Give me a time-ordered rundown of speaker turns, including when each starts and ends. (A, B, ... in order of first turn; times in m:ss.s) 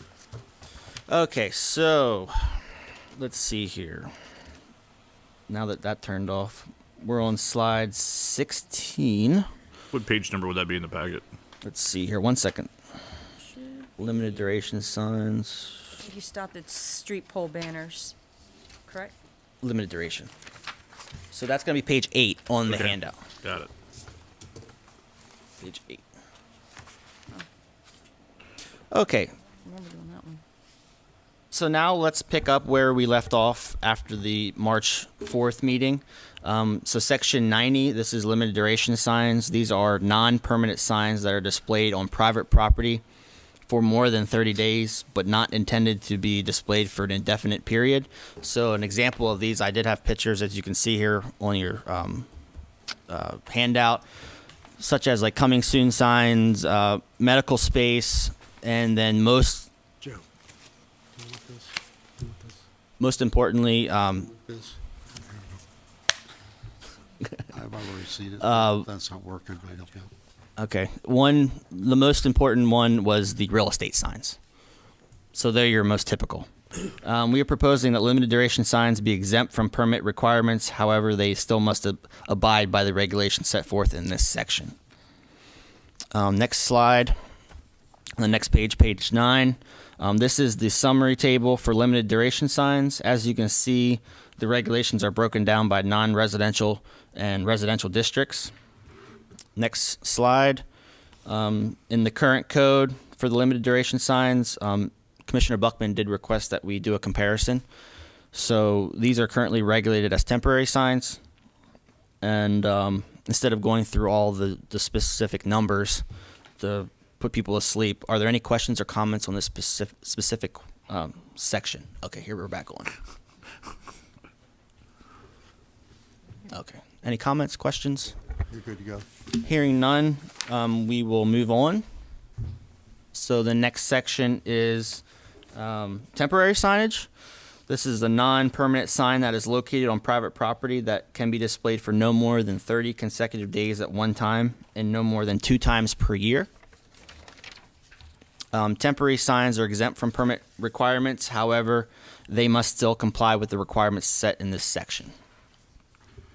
0:01.1-0:04.1 A
0:05.5-0:09.5 A
0:09.9-0:11.2 B
0:11.6-0:12.7 A
0:13.6-0:13.8 C
0:14.0-0:16.0 A
0:16.0-0:18.1 C
0:18.9-0:19.1 C
0:19.6-0:20.3 A
0:21.3-0:23.2 A
0:22.6-0:23.7 B
0:25.6-0:26.0 A
0:28.9-0:29.3 A
0:29.6-0:30.4 C
0:31.5-0:43.0 A
0:43.7-0:52.3 A
0:53.1-0:54.1 A
0:54.8-0:59.7 A
1:01.2-1:01.7 D
1:03.0-1:04.3 A
1:04.4-1:04.8 D
1:07.5-1:10.1 D
1:08.4-1:08.9 A
1:10.6-1:14.4 A
1:15.3-1:16.5 A
1:17.0-1:24.8 A
1:26.1-1:27.2 A
1:28.2-1:38.5 A
1:39.6-1:40.6 A
1:41.2-1:47.6 A
1:48.3-1:51.2 A
1:52.2-1:56.0 A
1:56.6-2:03.0 A
2:06.5-2:08.1 A
2:08.5-2:09.1 D
2:09.4-2:11.9 A
2:13.1-2:15.0 A
2:15.5-2:17.1 A
2:17.7-2:26.5 A
2:28.5-2:35.1 A